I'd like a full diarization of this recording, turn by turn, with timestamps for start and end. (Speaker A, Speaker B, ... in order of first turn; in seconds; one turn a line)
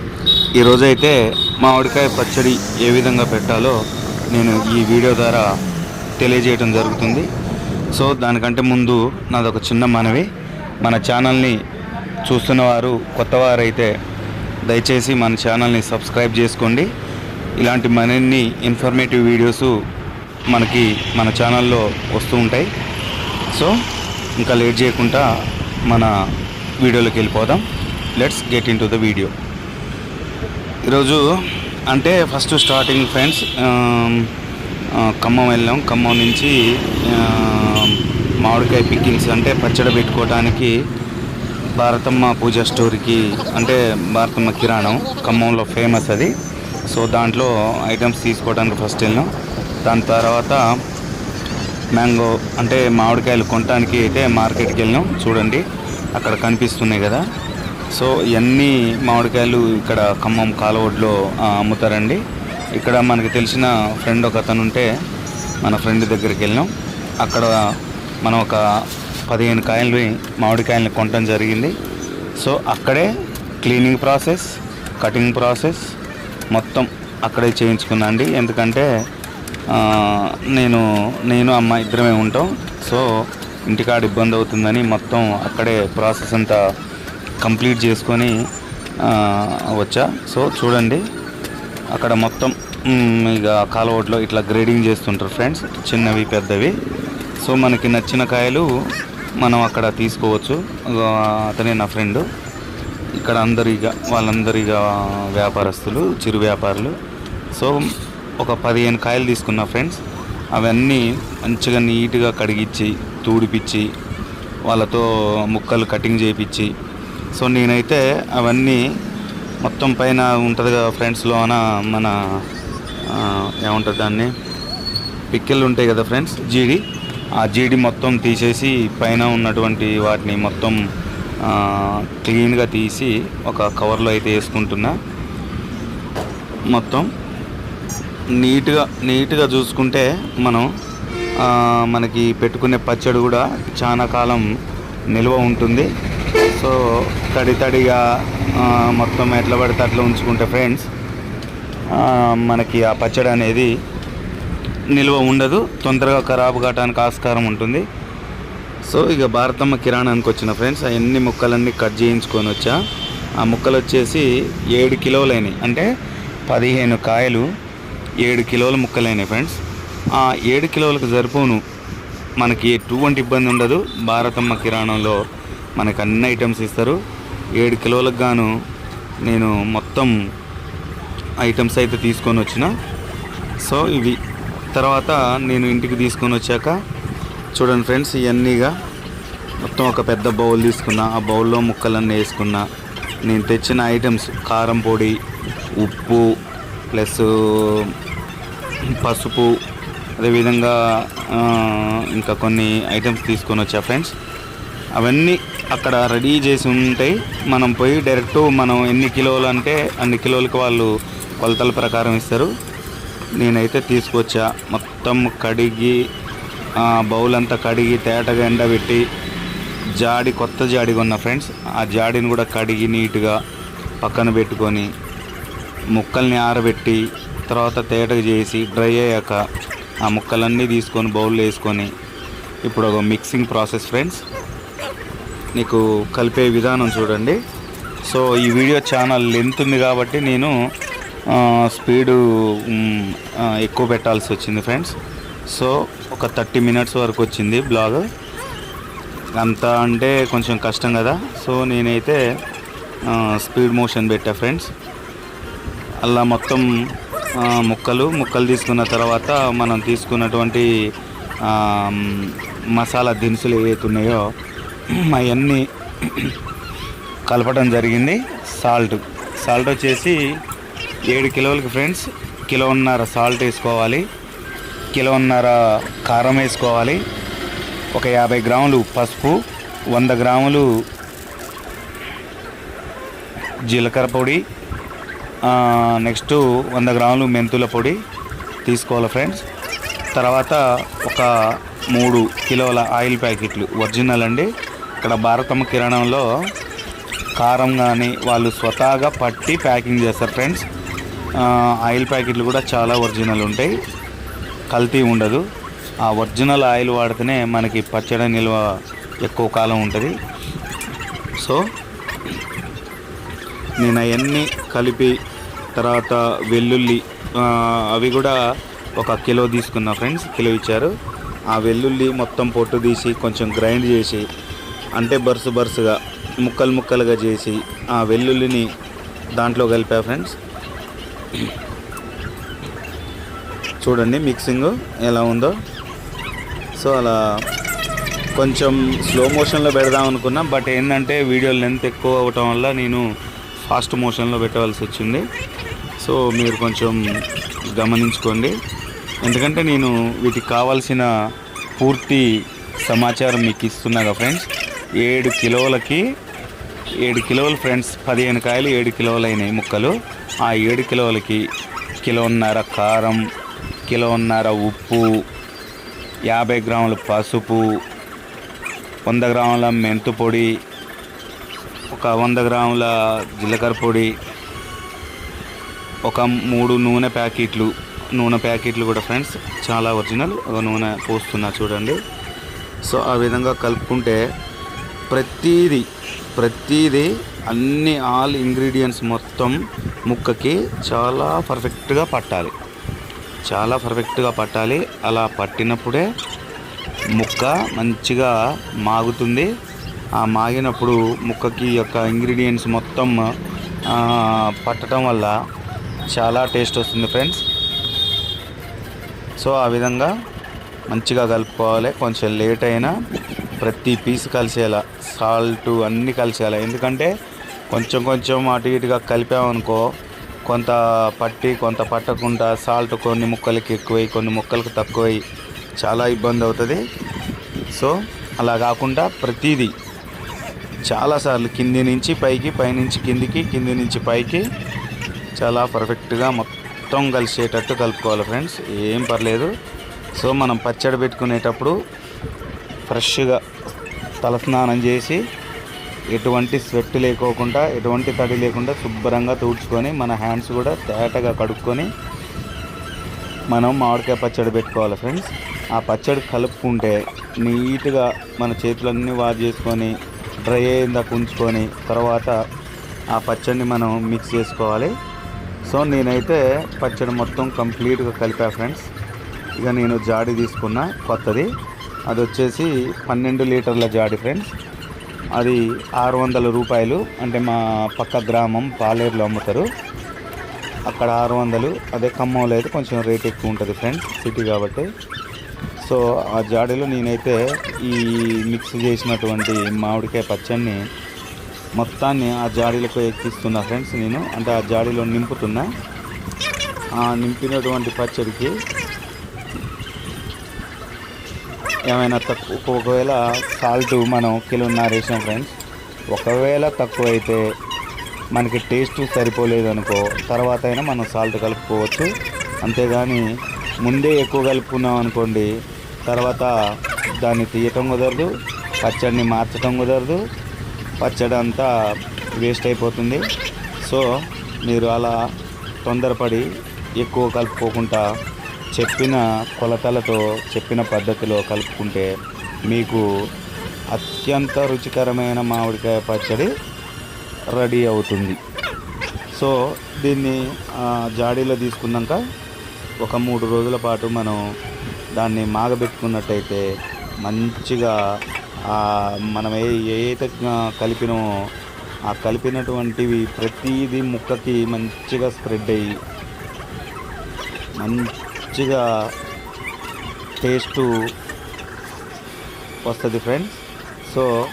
Speaker A: 0.6-3.8
Speaker A: 4.3-5.5
Speaker A: 6.2-7.3
Speaker A: 7.9-10.3
Speaker A: 10.8-11.6
Speaker A: 12.3-13.9
Speaker A: 14.7-16.9
Speaker A: 17.6-19.7
Speaker A: 20.5-22.7
Speaker A: 24.4-25.3
Speaker A: 26.8-27.6
Speaker A: 28.2-29.3
Speaker A: 30.9-31.2
Speaker A: 31.9-34.3
Speaker A: 35.0-40.7
Speaker A: 41.8-46.3
Speaker A: 46.9-49.3
Speaker A: 49.9-50.6
Speaker A: 52.0-55.6
Speaker A: 56.2-57.2
Speaker A: 57.9-62.2
Speaker A: 62.8-64.9
Speaker A: 65.6-67.5
Speaker A: 68.2-68.6
Speaker A: 69.3-71.7
Speaker A: 72.4-73.1
Speaker A: 73.6-75.9
Speaker A: 76.5-78.9
Speaker A: 79.7-83.1
Speaker A: 83.7-86.6
Speaker A: 87.4-88.3
Speaker A: 89.0-91.0
Speaker A: 91.9-96.7
Speaker A: 97.4-98.7
Speaker A: 99.4-102.2
Speaker A: 103.2-107.0
Speaker A: 107.5-107.9
Speaker A: 108.4-110.0
Speaker A: 110.5-113.9
Speaker A: 114.7-116.7
Speaker A: 117.3-118.8
Speaker A: 119.6-122.2
Speaker A: 123.1-124.3
Speaker A: 125.3-126.8
Speaker A: 127.4-130.8
Speaker A: 131.4-135.0
Speaker A: 136.7-137.1
Speaker A: 138.4-140.7
Speaker A: 141.4-144.5
Speaker A: 145.1-145.9
Speaker A: 146.5-150.9
Speaker A: 151.9-153.7
Speaker A: 154.9-157.9
Speaker A: 158.9-162.8
Speaker A: 163.4-165.9
Speaker A: 166.5-167.5
Speaker A: 168.2-169.6
Speaker A: 170.2-171.6
Speaker A: 172.4-175.2
Speaker A: 175.8-177.0
Speaker A: 177.6-178.5
Speaker A: 179.2-180.1
Speaker A: 181.4-182.7
Speaker A: 183.6-184.2
Speaker A: 184.7-186.8
Speaker A: 187.6-188.7
Speaker A: 189.6-192.7
Speaker A: 193.3-195.2
Speaker A: 195.8-196.3
Speaker A: 196.9-197.9
Speaker A: 198.9-199.6
Speaker A: 200.2-204.1
Speaker A: 205.0-212.5
Speaker A: 213.4-216.0
Speaker A: 216.8-219.1
Speaker A: 220.0-223.4
Speaker A: 224.0-224.9
Speaker A: 225.9-229.4
Speaker A: 230.0-231.9
Speaker A: 232.6-234.2
Speaker A: 235.6-237.4
Speaker A: 238.1-240.5
Speaker A: 241.3-245.0
Speaker A: 245.5-248.0
Speaker A: 249.4-252.2
Speaker A: 253.1-254.7
Speaker A: 256.0-256.7
Speaker A: 257.4-260.7
Speaker A: 261.4-264.3
Speaker A: 264.9-266.4
Speaker A: 267.3-270.2
Speaker A: 271.1-274.1
Speaker A: 274.9-277.0
Speaker A: 277.9-280.7
Speaker A: 283.6-284.4
Speaker A: 285.4-288.0
Speaker A: 288.6-289.4
Speaker A: 290.1-291.3
Speaker A: 291.9-296.3
Speaker A: 297.4-300.6
Speaker A: 301.4-303.7
Speaker A: 304.7-305.5
Speaker A: 306.0-308.7
Speaker A: 309.2-310.1
Speaker A: 313.8-315.2
Speaker A: 315.8-318.4
Speaker A: 319.0-320.9
Speaker A: 321.5-324.3
Speaker A: 325.0-328.7
Speaker A: 329.4-330.4
Speaker A: 333.8-335.6
Speaker A: 336.8-337.2
Speaker A: 338.4-343.0
Speaker A: 343.6-345.3
Speaker A: 346.0-347.0
Speaker A: 347.8-348.6
Speaker A: 349.2-351.1
Speaker A: 351.8-352.3
Speaker A: 352.8-354.5
Speaker A: 355.0-356.0
Speaker A: 357.0-359.9
Speaker A: 360.4-361.4
Speaker A: 362.0-363.2
Speaker A: 363.9-365.1
Speaker A: 366.3-367.6
Speaker A: 369.1-370.5
Speaker A: 371.9-374.1
Speaker A: 376.1-382.0
Speaker A: 382.8-384.2
Speaker A: 385.1-392.5
Speaker A: 393.5-396.1
Speaker A: 397.2-399.5
Speaker A: 400.2-403.2
Speaker A: 403.9-405.3
Speaker A: 406.1-407.4
Speaker A: 409.4-410.1
Speaker A: 410.9-412.9
Speaker A: 413.6-417.1
Speaker A: 417.7-419.9
Speaker A: 420.5-425.2
Speaker A: 425.8-426.8
Speaker A: 427.7-429.7
Speaker A: 430.9-434.4
Speaker A: 435.4-439.5
Speaker A: 440.2-441.8
Speaker A: 442.9-443.4
Speaker A: 444.2-445.2
Speaker A: 446.1-451.9
Speaker A: 453.5-459.9
Speaker A: 460.5-462.4
Speaker A: 463.1-464.9
Speaker A: 465.7-468.9
Speaker A: 469.6-471.5
Speaker A: 472.1-474.5
Speaker A: 475.4-479.7
Speaker A: 480.9-484.9
Speaker A: 485.8-490.8
Speaker A: 491.8-495.7
Speaker A: 497.0-498.5
Speaker A: 501.9-505.6
Speaker A: 506.1-507.4
Speaker A: 508.3-512.1
Speaker A: 512.6-513.2
Speaker A: 513.8-515.5
Speaker A: 516.1-516.5
Speaker A: 517.2-518.3
Speaker A: 518.8-520.2
Speaker A: 521.0-521.7
Speaker A: 522.4-523.2
Speaker A: 524.6-525.1
Speaker A: 525.9-526.5
Speaker A: 527.0-528.0
Speaker A: 528.8-532.1
Speaker A: 532.7-533.1
Speaker A: 533.9-536.5
Speaker A: 537.5-538.4
Speaker A: 539.4-542.2
Speaker A: 543.0-544.4
Speaker A: 545.2-546.6
Speaker A: 547.2-548.0
Speaker A: 548.7-551.2
Speaker A: 552.1-556.0
Speaker A: 557.8-558.9
Speaker A: 560.4-560.9
Speaker A: 562.9-564.3